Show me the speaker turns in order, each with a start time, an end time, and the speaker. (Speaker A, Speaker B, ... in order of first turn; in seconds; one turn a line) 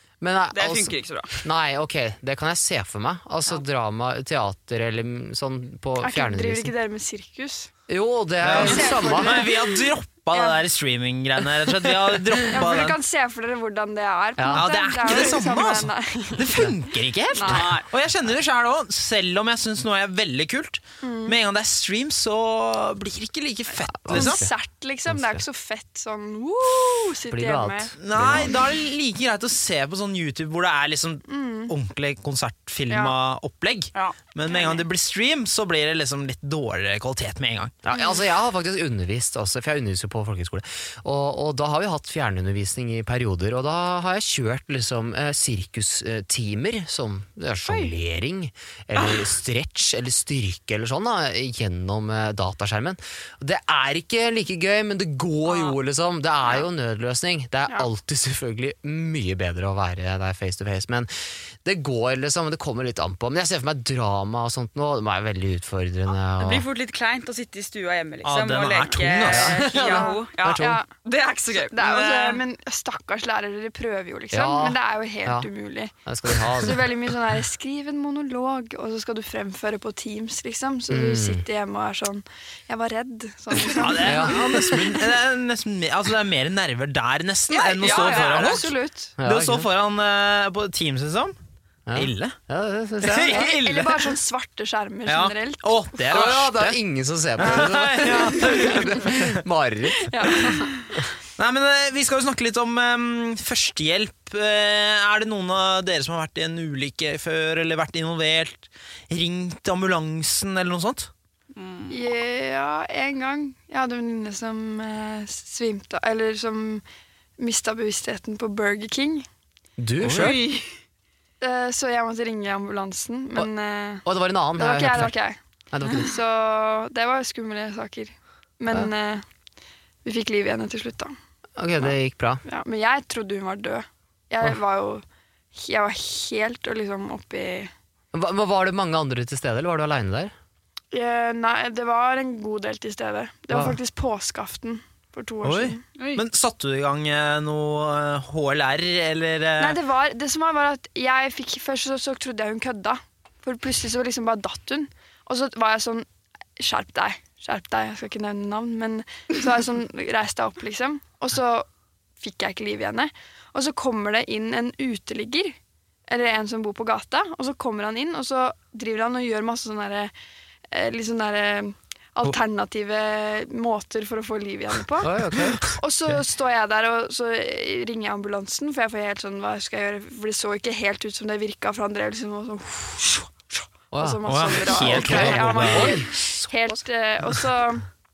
Speaker A: 0.2-6.7
Speaker B: 0.5-1.5
Speaker C: 6.0-7.7
Speaker A: 7.9-9.5
Speaker D: 8.4-13.0
Speaker C: 8.6-9.8
Speaker C: 12.5-16.7
Speaker A: 14.4-14.6
Speaker D: 14.5-24.4
Speaker C: 17.4-17.6
Speaker B: 17.4-17.8
Speaker C: 21.0-21.4
Speaker A: 23.9-24.5
Speaker C: 24.1-27.9
Speaker A: 25.1-25.4
Speaker A: 27.3-28.6
Speaker D: 28.0-37.7
Speaker C: 31.3-31.7
Speaker C: 32.9-33.1
Speaker C: 34.5-34.8
Speaker A: 37.8-61.1
Speaker B: 55.5-55.7
Speaker A: 61.6-66.7
Speaker B: 66.4-72.4
Speaker D: 68.2-69.9
Speaker A: 69.2-70.8
Speaker C: 69.8-70.8
Speaker C: 71.5-85.1
Speaker A: 74.3-75.5
Speaker A: 76.0-76.9
Speaker A: 80.9-81.4
Speaker D: 83.6-91.3
Speaker A: 84.0-84.4
Speaker C: 87.5-89.1
Speaker B: 87.8-88.7
Speaker A: 89.2-89.7
Speaker A: 91.9-93.5
Speaker D: 91.9-92.3
Speaker D: 93.0-94.2
Speaker C: 93.3-96.3
Speaker D: 95.0-96.8
Speaker A: 96.1-101.0
Speaker D: 97.4-99.4
Speaker C: 97.4-98.8
Speaker C: 100.0-100.8
Speaker D: 101.4-111.1
Speaker B: 111.5-112.0
Speaker C: 111.9-116.8
Speaker C: 117.4-119.2
Speaker A: 119.8-120.4
Speaker D: 120.0-120.3
Speaker B: 120.0-120.7
Speaker C: 121.4-125.4
Speaker A: 124.0-125.1
Speaker A: 125.7-126.1
Speaker C: 125.9-129.2
Speaker C: 130.0-131.1
Speaker A: 131.6-132.4
Speaker C: 131.8-137.7
Speaker A: 138.1-140.3
Speaker C: 140.9-145.8
Speaker A: 143.5-143.8
Speaker D: 145.4-149.8
Speaker C: 149.6-161.7
Speaker C: 162.2-165.6
Speaker C: 166.1-170.1
Speaker C: 170.7-175.1
Speaker A: 175.0-175.6
Speaker C: 175.7-183.3
Speaker A: 183.9-184.2
Speaker C: 184.0-187.8
Speaker D: 184.2-186.0
Speaker A: 184.8-186.8